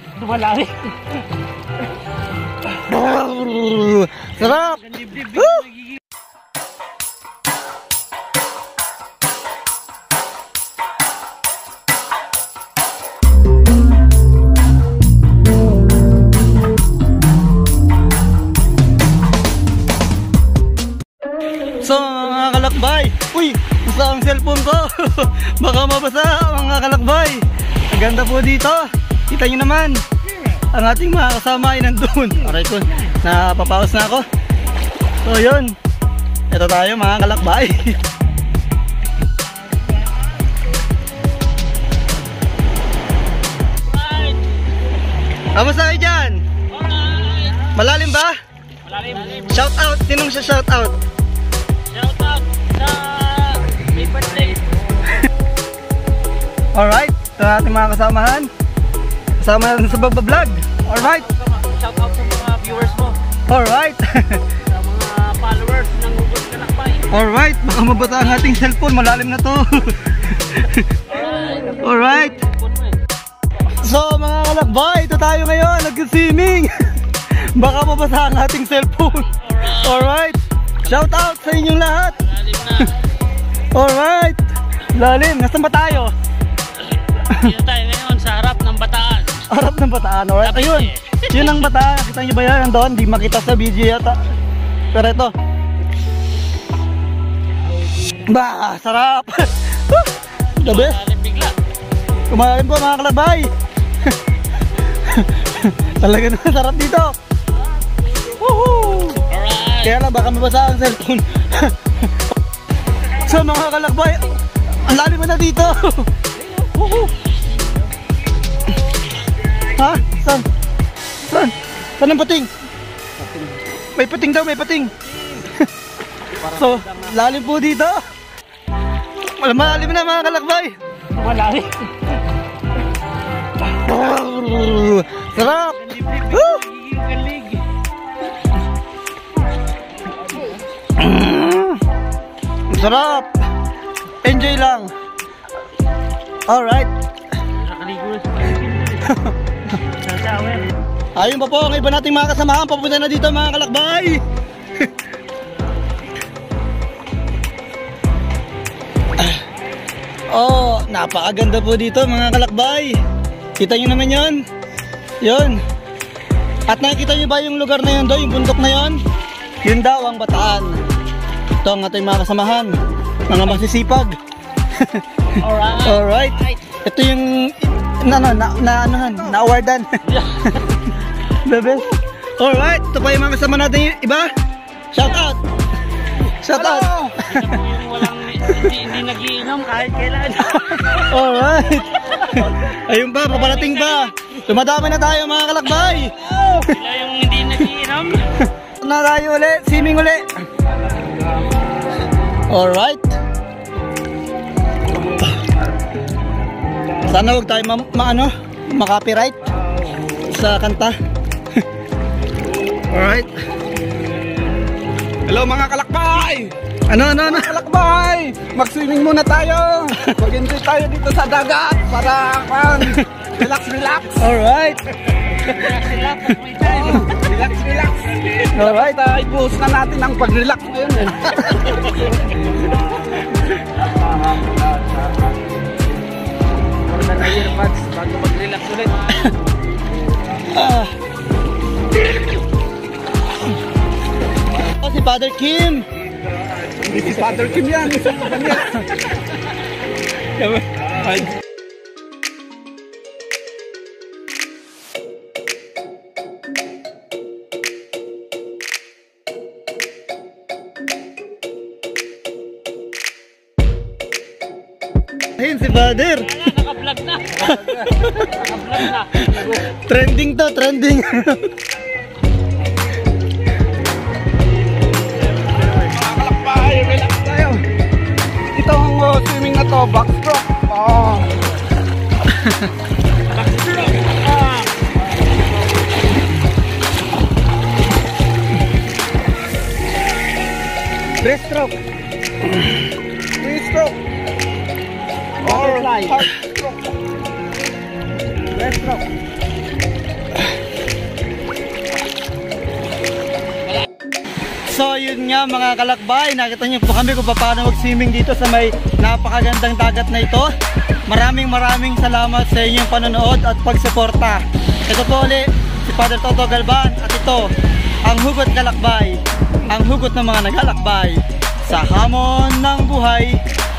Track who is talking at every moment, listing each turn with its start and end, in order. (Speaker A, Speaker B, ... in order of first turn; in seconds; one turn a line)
Speaker A: 0.2-1.0
Speaker B: 2.7-5.7
Speaker A: 4.6-5.9
Speaker B: 21.8-30.0
Speaker B: 30.7-34.3
Speaker B: 35.2-35.8
Speaker B: 36.5-38.0
Speaker A: 43.8-44.6
Speaker B: 45.5-46.5
Speaker A: 46.7-47.7
Speaker B: 47.7-48.3
Speaker A: 48.8-49.5
Speaker B: 49.5-51.0
Speaker A: 51.9-54.7
Speaker B: 56.7-58.5
Speaker B: 59.4-61.3
Speaker A: 61.0-63.2
Speaker B: 63.5-64.4
Speaker A: 64.7-67.1
Speaker B: 67.1-70.9
Speaker A: 71.1-73.0
Speaker B: 71.8-72.5
Speaker B: 73.8-82.3
Speaker A: 79.4-80.1
Speaker A: 82.2-82.9
Speaker B: 83.7-86.1
Speaker A: 87.1-89.5
Speaker B: 89.5-94.2
Speaker A: 90.5-91.6
Speaker B: 94.9-95.3
Speaker B: 98.1-101.0
Speaker A: 100.6-101.6
Speaker B: 102.3-103.5
Speaker B: 104.9-107.1
Speaker B: 108.3-109.2
Speaker A: 109.2-109.9
Speaker B: 109.8-111.9
Speaker B: 113.1-116.1
Speaker A: 116.6-117.1
Speaker B: 119.7-120.5
Speaker B: 121.2-122.5
Speaker B: 124.0-124.9
Speaker B: 126.4-128.0
Speaker A: 126.5-127.1
Speaker B: 129.3-130.8
Speaker A: 131.1-131.9
Speaker B: 133.6-136.6
Speaker A: 135.7-137.6
Speaker B: 140.9-141.8
Speaker B: 142.7-143.3
Speaker B: 144.2-144.9
Speaker B: 146.5-146.9
Speaker A: 147.5-149.2
Speaker B: 149.1-149.3
Speaker A: 149.9-150.8
Speaker B: 151.1-154.2
Speaker B: 160.3-163.0
Speaker B: 163.6-164.4
Speaker B: 165.2-165.6
Speaker B: 166.7-169.0
Speaker B: 169.6-170.8
Speaker B: 171.6-172.8
Speaker B: 173.3-174.2
Speaker B: 174.7-175.0
Speaker A: 175.4-176.6
Speaker B: 175.7-180.2
Speaker A: 180.1-180.5
Speaker B: 181.4-184.3
Speaker B: 184.9-185.4
Speaker B: 186.2-187.6
Speaker C: 186.5-187.2
Speaker A: 187.2-191.1
Speaker B: 190.5-196.7
Speaker A: 193.3-194.1
Speaker A: 196.5-198.3
Speaker B: 198.6-200.2
Speaker B: 202.5-203.2
Speaker B: 207.0-209.5
Speaker B: 210.2-210.9
Speaker B: 212.8-213.3
Speaker C: 215.2-216.5
Speaker B: 216.9-217.5
Speaker C: 217.2-224.3
Speaker B: 224.2-224.8
Speaker B: 225.3-225.7
Speaker A: 225.5-227.2
Speaker C: 226.6-232.0
Speaker B: 228.5-229.0
Speaker A: 236.8-239.2
Speaker B: 240.4-240.9
Speaker B: 244.6-245.9
Speaker C: 246.8-248.8
Speaker C: 250.4-251.3
Speaker B: 265.4-266.4
Speaker A: 266.2-269.6
Speaker B: 267.4-271.5
Speaker C: 275.7-277.6
Speaker C: 278.5-281.4
Speaker A: 291.2-291.8
Speaker C: 293.4-294.0
Speaker A: 295.4-296.2
Speaker C: 295.4-296.9
Speaker A: 298.5-299.0
Speaker B: 304.6-310.5
Speaker B: 311.1-317.5
Speaker B: 318.1-323.4